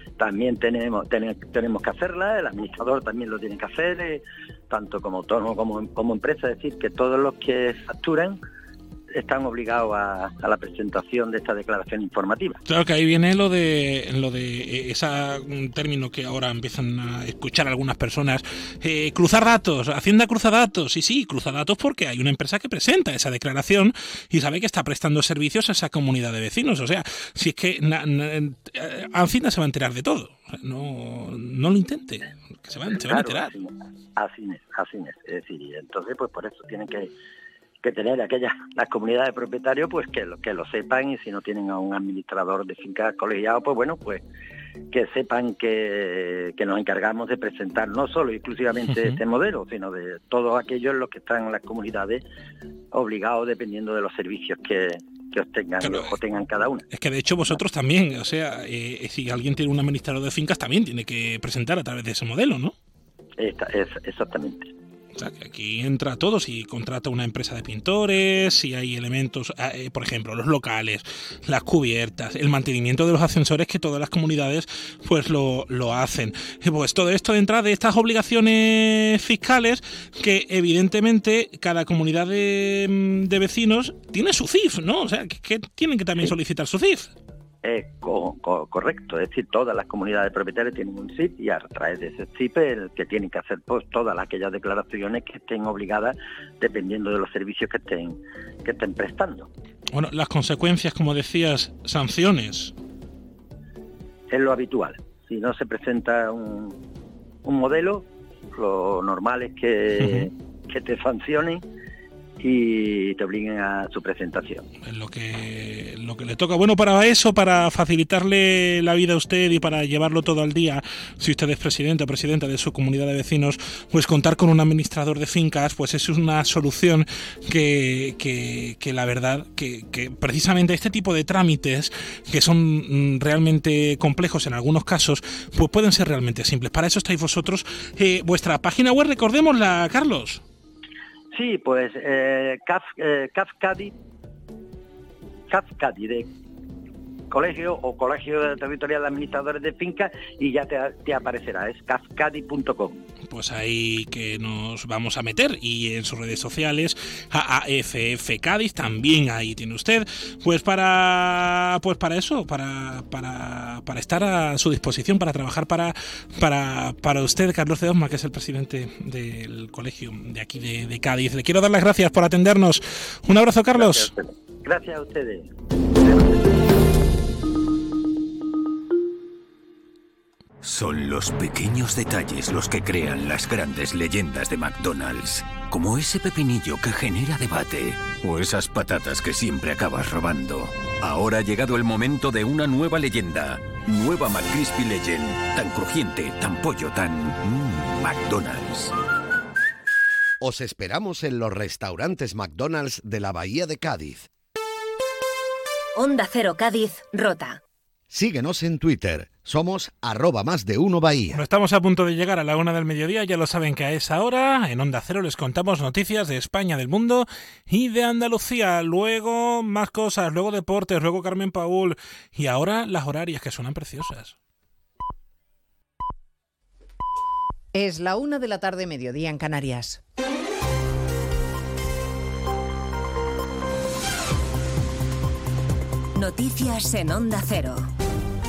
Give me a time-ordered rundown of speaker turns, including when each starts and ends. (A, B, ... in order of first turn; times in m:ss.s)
0:00.2-0:08.4 A
0:09.1-0:12.6 A
0:12.6-0:33.5 B
0:33.0-0:37.1 A
0:37.8-0:44.2 A
0:44.9-0:52.2 A
0:48.9-0:49.2 B
0:52.9-0:56.8 A
0:55.8-0:56.2 B
0:56.9-1:02.7 B
1:03.4-1:04.7 A
1:05.1-1:27.1 B
1:27.6-1:39.5 A
1:39.9-1:42.7 B
1:44.3-1:46.8 A
1:47.4-1:51.6 A
1:50.0-1:50.3 B
1:52.4-1:54.6 A
1:54.8-2:20.4 B
2:21.3-2:23.9 A
2:25.5-2:26.3 A
2:27.3-2:33.0 A
2:33.3-2:54.1 B
2:53.8-2:56.5 A
3:00.6-3:18.9 C
3:20.4-3:24.3 D
3:26.0-3:27.6 E
3:28.1-3:31.4 D
3:31.3-3:44.4 B
3:47.7-3:50.0 F
3:56.1-3:57.9 E